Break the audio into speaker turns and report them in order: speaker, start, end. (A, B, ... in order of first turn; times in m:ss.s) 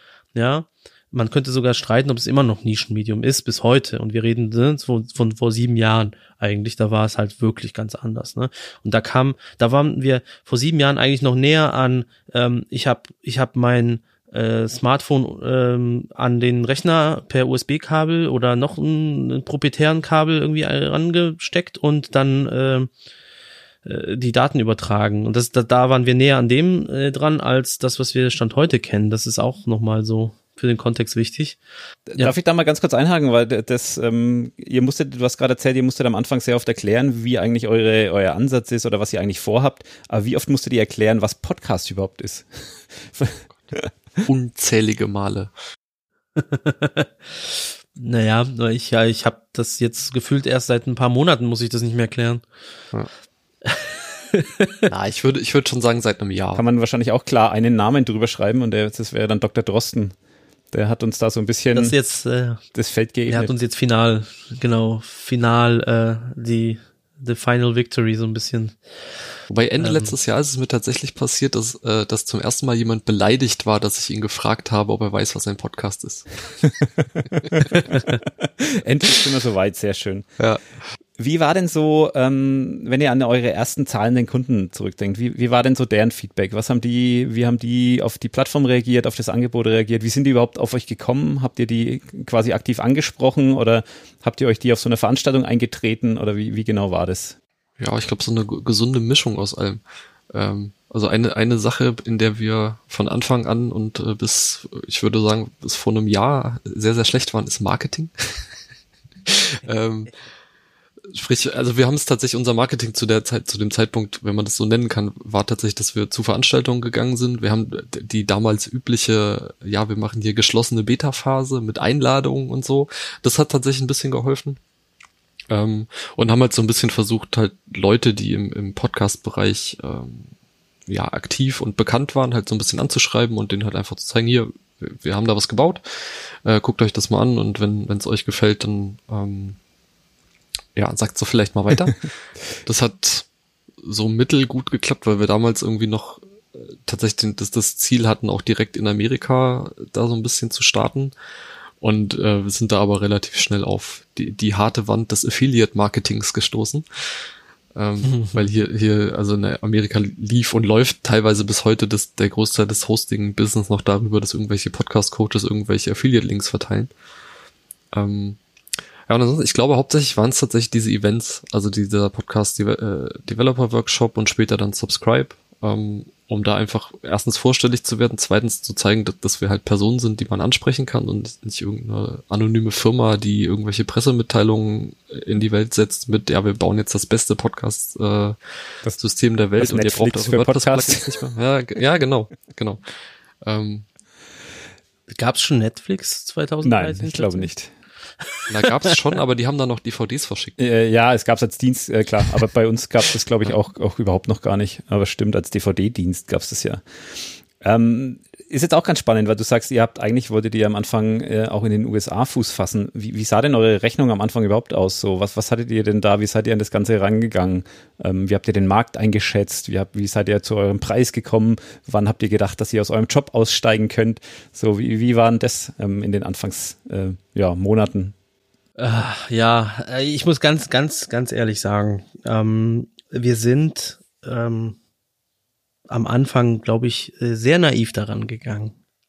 0:00.4-0:22.9 A
0:23.8-0:31.6 A
0:32.1-0:43.9 B
0:44.2-0:45.5 C
0:46.4-0:52.4 A
0:53.6-0:54.8 A
0:54.9-0:56.6 C
0:56.5-1:00.2 B
1:00.7-1:02.0 B
1:01.7-1:02.6 A
1:02.7-1:03.5 B
1:03.3-1:08.8 A
1:09.5-1:16.3 C
1:09.8-1:10.1 A
1:17.0-1:17.7 B
1:17.7-1:18.2 A
1:18.6-1:20.3 B
1:21.2-1:37.4 B
1:37.8-1:39.8 C
1:40.3-1:48.4 C
1:49.3-1:50.2 C
1:51.1-2:04.6 C
2:05.5-2:10.3 C
2:10.9-2:19.6 C
2:20.8-2:22.1 C
2:22.6-2:23.3 C
2:23.8-2:31.1 C
2:31.8-2:36.8 C
2:37.8-2:46.9 C
2:38.1-2:38.4 A
2:47.9-2:48.4 C
2:49.1-3:08.4 C
3:09.0-3:12.8 C
3:09.6-3:11.3 B
3:13.4-3:13.9 C
3:15.1-3:17.5 A
3:16.6-3:17.7 B
3:18.5-3:20.6 C
3:20.6-3:26.8 B
3:27.6-3:48.1 B
3:48.8-3:54.8 A
3:55.9-3:58.7 A